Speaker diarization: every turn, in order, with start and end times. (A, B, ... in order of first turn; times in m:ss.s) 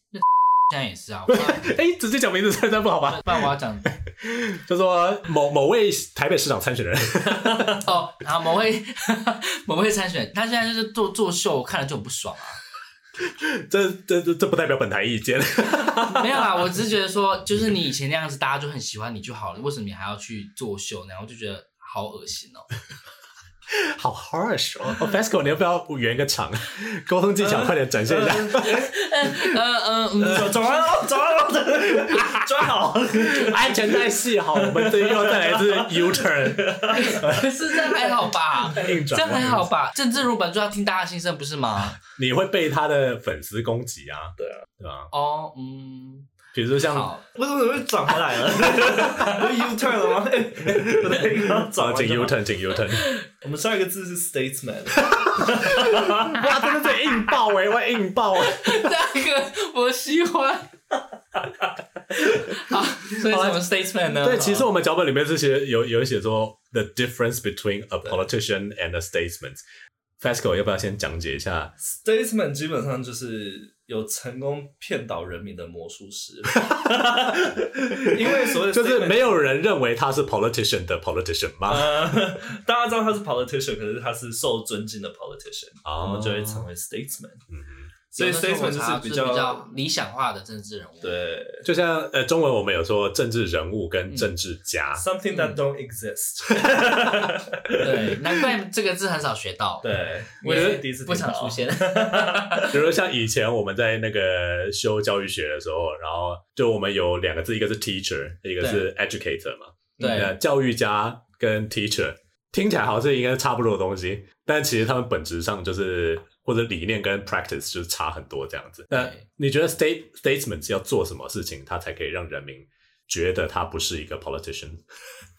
0:00.1-0:01.7 A
0:01.3-0:07.8 B
0:03.1-0:03.9 A
0:07.7-0:12.6 A
0:13.2-0:16.4 B
0:16.1-0:22.7 A
0:23.7-0:28.8 B
0:27.4-0:28.9 C
0:28.6-0:31.0 A
0:30.2-0:38.3 C
0:33.4-0:37.5 B
0:36.9-0:42.0 A
0:38.6-0:39.7 B
0:42.0-0:45.1 B
0:44.4-0:44.7 C
0:45.1-0:47.2 A
0:46.5-0:47.1 B
0:47.3-0:52.4 C
0:50.7-0:53.1 B
0:53.4-0:56.4 C
0:55.1-0:58.8 B
0:58.4-1:00.8 A
1:02.1-1:04.7 A
1:03.1-1:09.6 B
1:10.2-1:11.7 B
1:11.8-1:19.5 C
1:16.6-1:22.1 B
1:21.7-1:27.4 C
1:25.8-1:26.7 B
1:27.5-1:27.9 B
1:28.1-1:29.7 C
1:28.1-1:31.2 A
1:31.0-1:31.7 C
1:31.6-1:35.0 B
1:35.0-1:38.2 C
1:35.3-1:35.6 A
1:37.8-1:39.9 A
1:39.8-1:42.8 C
1:40.4-1:42.9 A
1:40.5-1:40.8 B
1:42.7-2:04.8 B
1:48.6-1:48.8 A
1:50.0-1:50.3 C
1:50.0-1:50.3 A
1:58.9-1:59.2 A